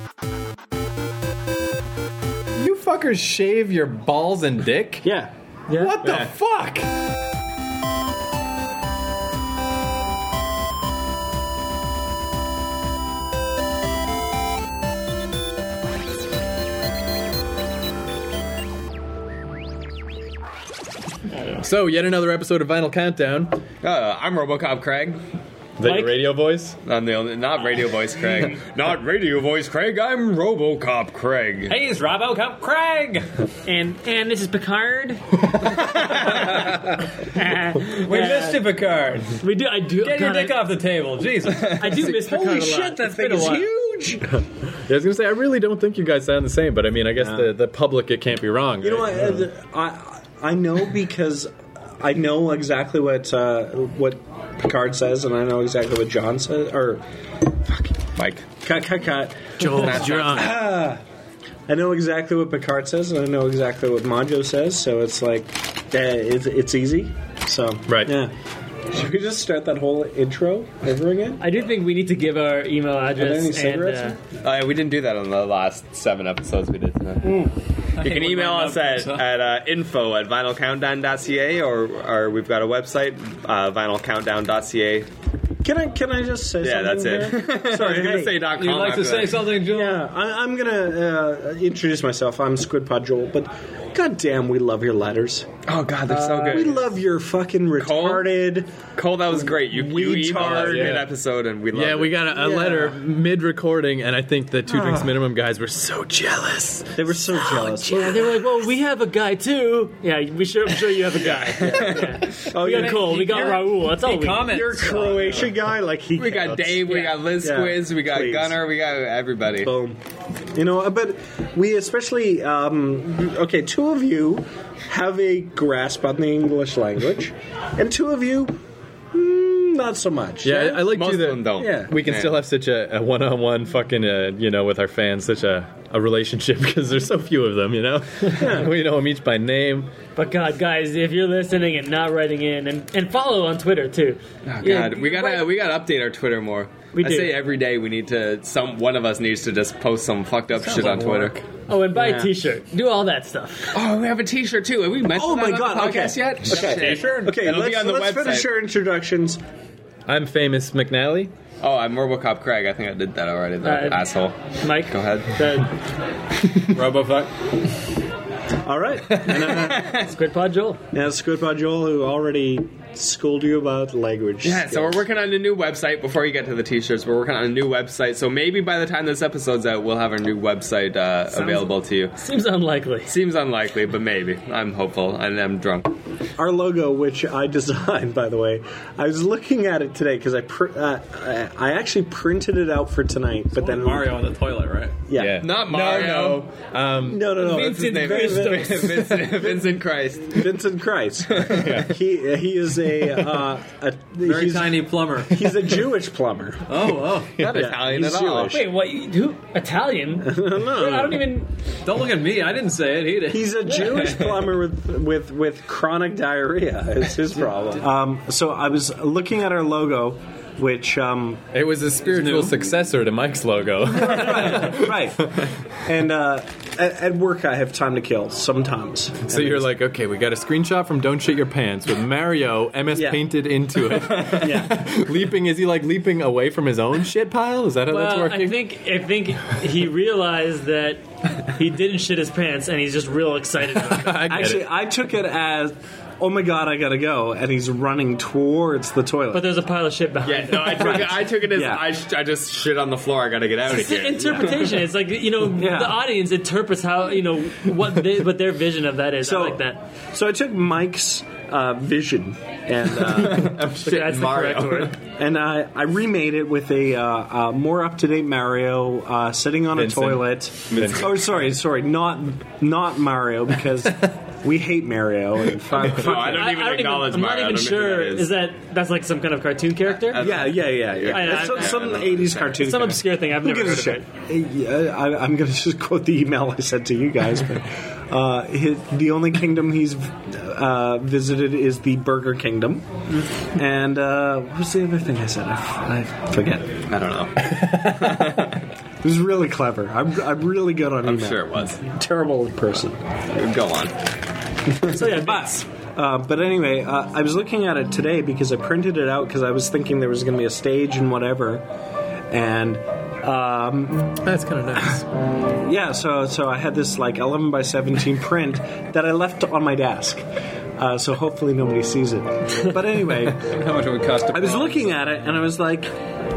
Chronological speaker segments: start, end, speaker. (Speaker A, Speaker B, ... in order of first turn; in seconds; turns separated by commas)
Speaker A: 2.5-5.0, Speaker B: 5.0-5.3, Speaker C: 5.7-6.1, Speaker A: 5.7-6.9, Speaker C: 21.3-21.6, Speaker A: 21.6-23.6, Speaker D: 23.8-25.2, Speaker A: 25.8-26.8, Speaker C: 25.8-26.2, Speaker D: 26.8-31.8, Speaker E: 31.7-33.3, Speaker C: 33.6-36.7, Speaker E: 35.7-36.8, Speaker C: 37.3-38.6, Speaker E: 37.8-39.4, Speaker C: 39.4-40.7, Speaker E: 40.0-42.0, Speaker C: 41.6-43.7, Speaker B: 41.9-44.3, Speaker A: 44.8-49.5, Speaker B: 48.8-57.9, Speaker D: 58.2-58.4, Speaker B: 58.6-61.0, Speaker A: 59.6-60.6, Speaker D: 59.6-60.6, Speaker B: 61.7-68.3, Speaker A: 67.9-68.1, Speaker B: 68.9-71.4, Speaker C: 71.4-74.2, Speaker B: 73.2-74.2, Speaker D: 74.4-77.3, Speaker B: 77.2-77.5, Speaker E: 78.0-79.3, Speaker D: 78.0-85.1, Speaker B: 85.6-88.4, Speaker D: 86.6-89.5, Speaker E: 88.5-90.0, Speaker B: 89.6-95.5, Speaker D: 95.7-96.8, Speaker B: 96.1-98.7, Speaker D: 97.8-98.3, Speaker D: 99.0-102.2, Speaker B: 99.3-101.1, Speaker A: 100.3-101.1, Speaker A: 101.7-108.4, Speaker B: 102.3-103.0, Speaker B: 104.7-105.1, Speaker B: 107.0-108.2, Speaker C: 107.9-114.7, Speaker D: 111.2-112.2, Speaker B: 112.3-113.5, Speaker E: 112.5-115.5, Speaker B: 114.4-118.6, Speaker D: 116.1-119.7, Speaker C: 116.9-117.2, Speaker B: 119.6-120.0, Speaker B: 120.5-128.6, Speaker B: 129.1-130.9, Speaker A: 130.4-139.9, Speaker D: 130.8-132.4, Speaker B: 131.6-131.9, Speaker B: 138.3-138.7, Speaker C: 140.2-145.5, Speaker D: 144.5-151.4, Speaker C: 146.9-147.4, Speaker E: 150.6-151.4, Speaker C: 151.7-153.8, Speaker B: 151.9-152.3, Speaker D: 153.7-158.5, Speaker B: 155.1-159.4, Speaker A: 160.1-161.3, Speaker D: 161.6-165.4, Speaker C: 163.6-164.1, Speaker C: 164.6-165.7, Speaker E: 166.7-167.3, Speaker B: 168.6-169.9, Speaker D: 169.3-170.1, Speaker C: 169.8-170.8, Speaker B: 170.9-175.0, Speaker D: 174.4-182.1, Speaker C: 181.3-183.1, Speaker D: 183.1-186.0, Speaker B: 186.4-194.2, Speaker E: 193.7-194.9, Speaker A: 193.8-194.3, Speaker A: 195.0-197.3, Speaker B: 195.1-195.5, Speaker D: 195.4-196.5, Speaker B: 197.0-208.6, Speaker C: 197.4-199.4, Speaker D: 197.4-200.6, Speaker D: 201.3-201.8, Speaker A: 201.5-201.9, Speaker E: 204.2-205.8, Speaker E: 206.7-207.4, Speaker A: 207.3-207.7, Speaker D: 207.4-208.6, Speaker C: 208.4-211.5, Speaker B: 210.2-211.2, Speaker E: 211.8-213.6, Speaker B: 213.3-221.4, Speaker A: 221.5-225.5, Speaker E: 222.1-222.6, Speaker B: 223.9-229.6, Speaker A: 229.3-238.6, Speaker B: 232.9-233.2, Speaker D: 233.9-234.5, Speaker B: 234.4-234.9, Speaker C: 237.9-244.3, Speaker A: 243.8-244.7, Speaker B: 244.2-249.4, Speaker C: 249.3-251.2, Speaker D: 250.2-254.8, Speaker B: 250.7-251.8, Speaker C: 253.7-259.8, Speaker B: 255.6-256.0, Speaker B: 259.2-259.6, Speaker B: 260.1-263.6, Speaker D: 263.1-264.9, Speaker C: 263.5-264.9, Speaker B: 265.2-276.5, Speaker A: 269.7-271.1, Speaker D: 275.8-278.3, Speaker C: 276.0-280.2, Speaker D: 280.0-282.7, Speaker B: 280.2-292.9, Speaker C: 281.1-282.0, Speaker C: 282.6-284.0, Speaker B: 293.4-296.9, Speaker D: 296.9-298.6, Speaker A: 297.6-298.0, Speaker B: 299.0-303.0, Speaker D: 301.0-301.8, Speaker D: 303.3-303.9, Speaker B: 304.7-311.6, Speaker C: 304.9-305.6, Speaker B: 312.3-314.2, Speaker A: 314.2-315.1, Speaker B: 315.5-320.2, Speaker B: 320.8-323.5, Speaker E: 323.3-325.1, Speaker B: 324.3-325.9